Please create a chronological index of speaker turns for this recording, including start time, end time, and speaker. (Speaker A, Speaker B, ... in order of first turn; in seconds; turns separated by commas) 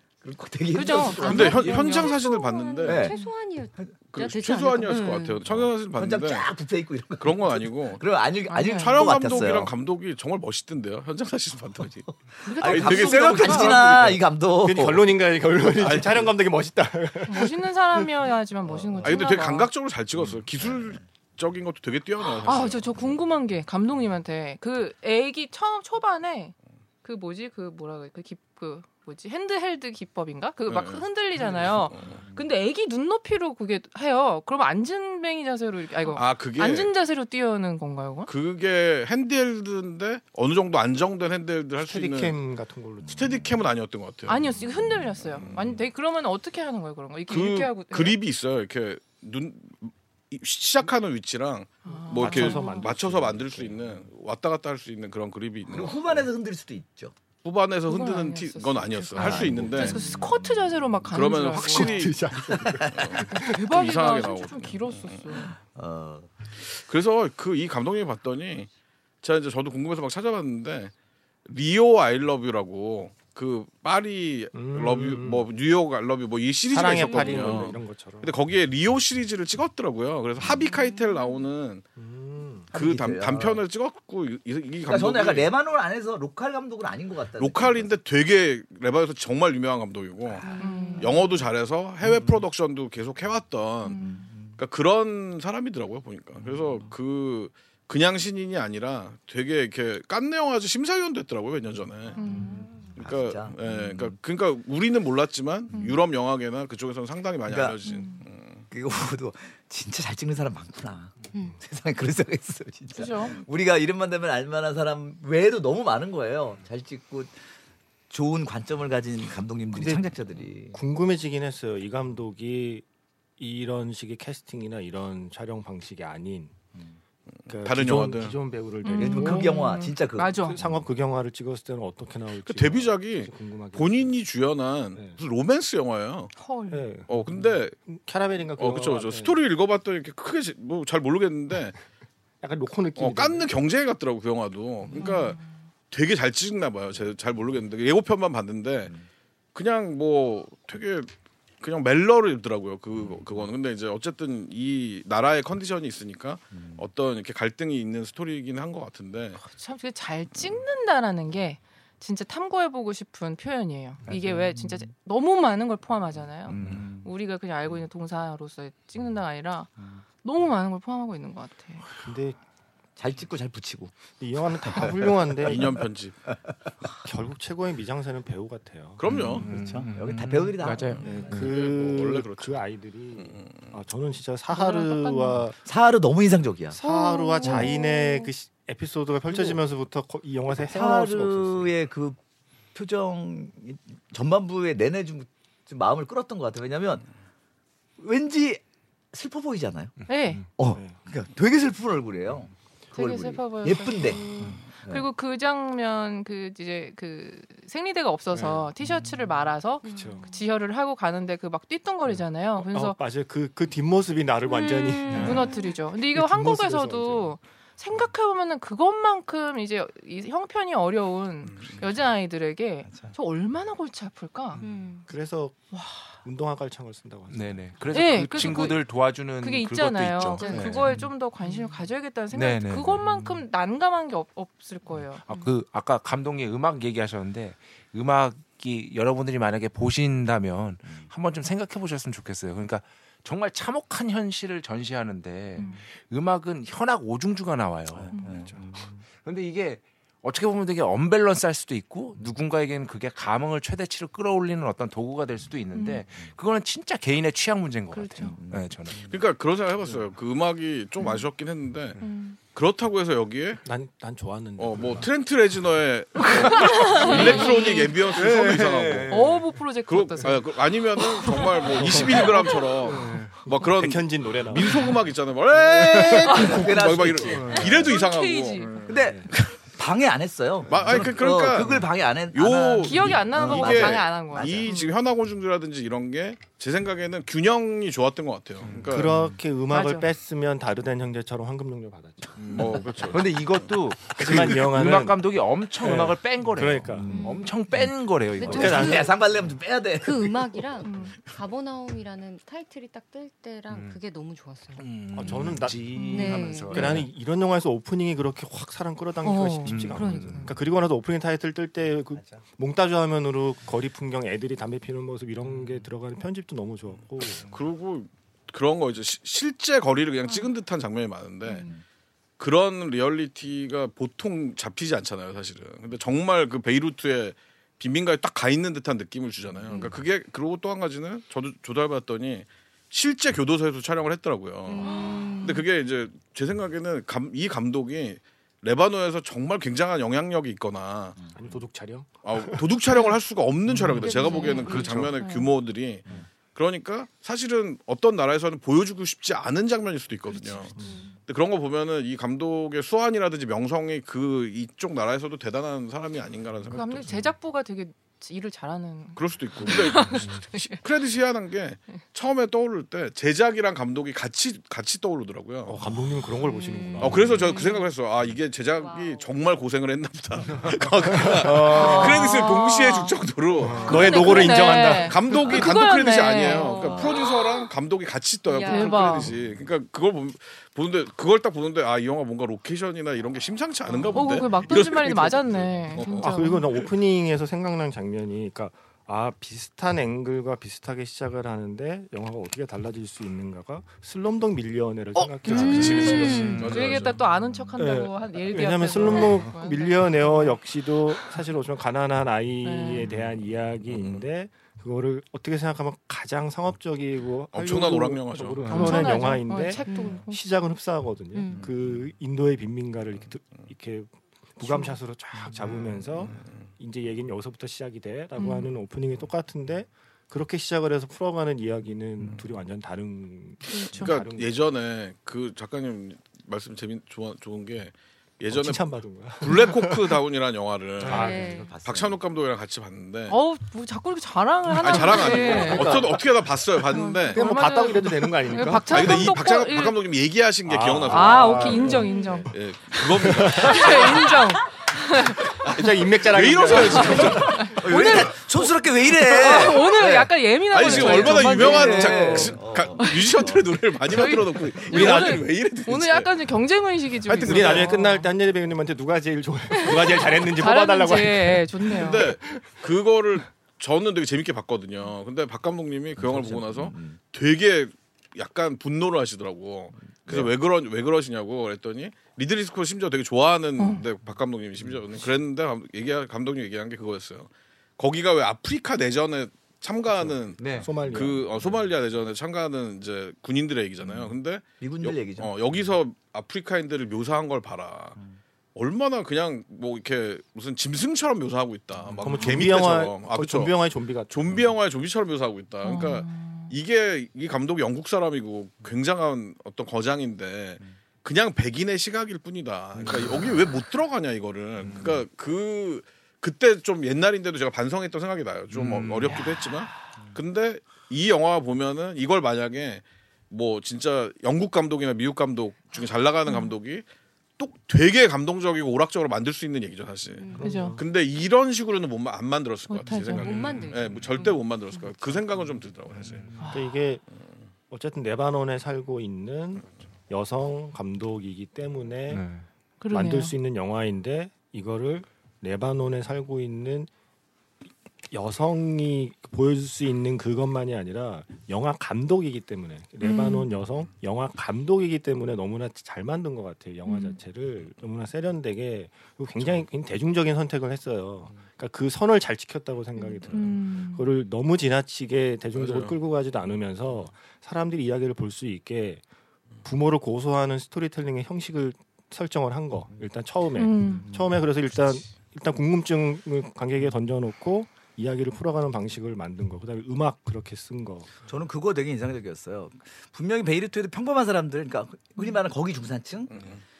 Speaker A: 0.2-1.9, Speaker B: 0.7-2.1, Speaker C: 0.8-5.4, Speaker D: 1.2-3.1, Speaker A: 2.8-3.1, Speaker B: 3.0-3.3, Speaker D: 4.1-6.5, Speaker A: 5.5-9.7, Speaker D: 7.2-8.0, Speaker B: 8.5-9.1, Speaker D: 8.6-14.2, Speaker A: 12.4-15.2, Speaker B: 12.4-13.9, Speaker E: 14.6-18.1, Speaker D: 15.8-16.3, Speaker B: 17.3-19.7, Speaker A: 18.7-19.2, Speaker D: 19.0-23.1, Speaker A: 20.1-21.0, Speaker B: 22.3-38.3, Speaker D: 30.7-32.2, Speaker D: 36.1-36.9, Speaker D: 38.3-42.4, Speaker E: 41.8-43.5, Speaker A: 43.0-43.5, Speaker D: 43.1-44.5, Speaker B: 44.2-48.2, Speaker A: 44.9-45.8, Speaker D: 45.3-45.6, Speaker D: 47.3-56.3, Speaker B: 51.8-52.9, Speaker E: 52.2-53.9, Speaker A: 55.7-57.1, Speaker D: 57.4-60.0, Speaker B: 57.9-62.1, Speaker A: 59.1-60.6, Speaker D: 61.1-62.2, Speaker E: 61.6-63.5, Speaker A: 62.3-63.3, Speaker D: 62.9-65.5, Speaker B: 63.3-65.5, Speaker A: 65.5-66.3, Speaker D: 66.6-68.7, Speaker D: 69.2-70.9, Speaker D: 71.5-81.8, Speaker E: 74.5-75.5, Speaker E: 76.7-78.3, Speaker C: 77.0-77.5, Speaker B: 80.5-81.3, Speaker E: 82.0-82.7, Speaker A: 82.7-83.6, Speaker D: 82.7-85.5, Speaker A: 84.8-87.9, Speaker D: 87.4-94.0, Speaker C: 90.5-91.0, Speaker B: 90.5-91.2, Speaker A: 92.0-92.4, Speaker B: 93.8-94.2, Speaker A: 94.0-94.6, Speaker D: 94.6-102.2, Speaker A: 96.4-96.9, Speaker B: 102.2-102.8, Speaker A: 102.2-104.2, Speaker C: 102.3-102.7, Speaker D: 103.0-108.6, Speaker B: 105.7-106.0, Speaker A: 107.5-107.8, Speaker B: 107.8-108.2, Speaker A: 108.7-117.3, Speaker B: 112.9-113.4, Speaker A: 118.1-120.8, Speaker E: 119.7-120.1, Speaker E: 120.7-122.8, Speaker E: 123.4-126.5, Speaker D: 127.5-128.4, Speaker E: 127.5-129.7, Speaker B: 128.8-130.6, Speaker A: 128.9-130.7, Speaker E: 130.4-134.2, Speaker D: 132.4-136.3, Speaker B: 136.4-136.9, Speaker E: 136.7-137.1, Speaker D: 137.1-137.8, Speaker E: 137.9-139.4, Speaker D: 138.6-141.8, Speaker E: 142.4-143.5, Speaker D: 143.0-145.4, Speaker B: 144.9-145.5, Speaker D: 145.9-148.9, Speaker D: 149.5-151.1, Speaker D: 151.6-159.4, Speaker A: 153.0-153.4, Speaker A: 156.5-156.8, Speaker B: 159.4-169.7, Speaker A: 164.1-164.9, Speaker A: 166.5-167.1, Speaker F: 166.5-167.0, Speaker B: 170.2-171.8, Speaker E: 171.9-172.4, Speaker A: 173.0-173.9, Speaker E: 174.2-175.8, Speaker A: 174.6-175.7, Speaker D: 175.4-176.3, Speaker E: 177.0-179.0, Speaker D: 179.0-179.4, Speaker F: 179.1-181.5, Speaker A: 179.4-181.4, Speaker D: 181.0-182.6, Speaker E: 181.0-185.5, Speaker B: 181.0-181.3, Speaker D: 183.2-183.7, Speaker B: 184.5-185.4, Speaker A: 185.6-186.8, Speaker E: 186.7-191.7, Speaker B: 186.8-188.2, Speaker C: 187.1-188.2, Speaker A: 189.3-189.6, Speaker A: 190.5-192.2, Speaker A: 192.7-197.1, Speaker A: 198.0-199.9, Speaker F: 200.1-200.3, Speaker B: 200.1-200.5, Speaker A: 200.6-205.1, Speaker E: 200.7-201.0, Speaker B: 202.9-213.0, Speaker C: 209.8-210.4, Speaker E: 209.9-210.2, Speaker E: 212.6-217.3, Speaker C: 214.5-215.8, Speaker B: 215.1-224.6, Speaker D: 221.4-221.9, Speaker A: 222.9-223.1, Speaker C: 224.6-225.1, Speaker E: 225.1-225.7, Speaker B: 225.7-226.1, Speaker E: 226.2-228.7, Speaker F: 227.3-231.1, Speaker B: 227.9-235.2, Speaker C: 230.3-230.8, Speaker F: 232.3-233.4, Speaker F: 235.2-248.5, Speaker B: 245.6-245.8, Speaker A: 247.9-249.0, Speaker B: 248.1-248.5, Speaker F: 249.2-259.1, Speaker B: 255.7-256.0, Speaker B: 257.9-258.4, Speaker A: 258.3-259.1, Speaker D: 259.1-262.0, Speaker B: 262.0-262.4, Speaker D: 262.5-263.6, Speaker E: 263.6-265.1, Speaker D: 264.6-269.2, Speaker B: 266.4-268.2, Speaker F: 268.1-269.6, Speaker B: 269.1-272.7, Speaker D: 269.9-278.9, Speaker E: 271.7-272.5, Speaker F: 272.9-273.4, Speaker E: 273.4-275.0, Speaker E: 275.7-276.8, Speaker A: 276.1-277.9, Speaker B: 276.2-276.6, Speaker F: 277.4-277.7, Speaker B: 277.7-278.9, Speaker A: 278.9-284.7, Speaker E: 278.9-279.3, Speaker D: 280.7-289.1, Speaker B: 282.8-284.9, Speaker F: 288.6-289.1, Speaker E: 288.9-293.2, Speaker B: 289.7-290.1, Speaker F: 292.5-299.1, Speaker D: 292.5-293.4, Speaker E: 294.1-295.2, Speaker E: 295.8-297.1, Speaker A: 296.9-297.4, Speaker C: 297.1-297.5, Speaker C: 298.4-299.2, Speaker A: 298.4-300.6, Speaker E: 298.4-299.1, Speaker C: 300.0-304.9, Speaker B: 300.8-301.1, Speaker F: 303.7-304.0, Speaker F: 304.8-307.1, Speaker E: 305.1-317.5, Speaker B: 305.9-306.4, Speaker C: 305.9-307.0, Speaker C: 309.2-310.5, Speaker F: 309.6-310.6, Speaker D: 317.4-321.7, Speaker D: 322.4-341.2, Speaker C: 329.7-329.9, Speaker C: 334.7-335.6, Speaker B: 334.8-335.4, Speaker A: 341.2-341.5, Speaker E: 341.3-342.7, Speaker D: 342.2-357.1, Speaker E: 343.7-345.1, Speaker F: 343.7-345.1, Speaker B: 344.0-345.5, Speaker C: 344.1-344.8, Speaker B: 350.3-350.7, Speaker B: 356.7-360.8, Speaker D: 359.1-365.8, Speaker E: 365.7-367.5, Speaker C: 366.5-367.8, Speaker B: 366.5-367.8, Speaker D: 367.0-386.9, Speaker C: 368.8-369.4, Speaker E: 370.7-372.2, Speaker B: 371.7-373.2, Speaker E: 373.6-375.2, Speaker B: 373.8-377.2, Speaker C: 373.9-374.2, Speaker C: 376.5-377.5, Speaker A: 376.8-377.2, Speaker C: 378.5-379.1, Speaker B: 378.5-379.3, Speaker B: 383.9-386.8, Speaker E: 386.2-396.6, Speaker B: 395.4-400.6, Speaker D: 395.4-397.2, Speaker C: 395.5-396.7, Speaker F: 396.4-396.8, Speaker E: 397.8-424.5, Speaker B: 401.1-401.4, Speaker B: 402.6-403.1, Speaker D: 403.9-404.2, Speaker D: 407.5-409.2, Speaker B: 408.7-410.4, Speaker F: 408.7-408.9, Speaker C: 409.8-410.2, Speaker C: 411.3-411.6, Speaker B: 414.6-414.9, Speaker D: 416.2-416.7, Speaker B: 418.4-418.6, Speaker B: 423.7-424.1, Speaker D: 423.9-433.4, Speaker E: 428.5-430.1, Speaker E: 431.0-431.7, Speaker A: 431.0-432.2, Speaker C: 431.1-431.7, Speaker B: 433.3-436.2, Speaker D: 434.7-437.4, Speaker E: 435.5-436.1, Speaker A: 435.6-436.0, Speaker B: 436.9-440.0, Speaker E: 437.3-438.9, Speaker D: 438.9-444.5, Speaker E: 440.6-443.9, Speaker B: 441.1-445.7, Speaker D: 445.6-447.8, Speaker E: 445.6-447.8, Speaker B: 446.7-458.3, Speaker A: 447.3-453.7, Speaker D: 450.7-456.3, Speaker D: 457.2-457.9, Speaker E: 457.4-462.8, Speaker B: 459.9-462.3, Speaker D: 462.0-488.2, Speaker A: 466.1-467.2, Speaker B: 473.8-474.1, Speaker A: 474.9-475.2, Speaker E: 480.1-481.8, Speaker F: 480.6-480.9, Speaker A: 484.0-485.6, Speaker D: 488.7-493.7, Speaker E: 492.2-494.7, Speaker D: 494.3-517.0, Speaker B: 495.8-496.7, Speaker F: 504.8-505.2, Speaker F: 508.7-509.7, Speaker B: 516.5-516.7, Speaker D: 517.6-526.5, Speaker C: 520.4-520.7, Speaker B: 520.6-521.0, Speaker E: 520.6-521.0, Speaker B: 522.9-523.9, Speaker C: 523.2-524.4, Speaker F: 523.4-524.2, Speaker B: 524.4-524.6, Speaker F: 526.2-526.7, Speaker B: 526.6-527.0, Speaker E: 526.6-527.2, Speaker E: 527.9-532.5, Speaker F: 532.3-532.6, Speaker B: 533.0-533.5, Speaker E: 533.1-537.1, Speaker E: 538.3-559.2, Speaker B: 543.2-543.7, Speaker B: 547.0-547.4, Speaker B: 553.2-554.3, Speaker D: 555.8-556.1, Speaker E: 559.8-571.3, Speaker B: 563.7-564.3, Speaker A: 564.2-564.6, Speaker A: 571.5-576.6, Speaker D: 576.5-576.8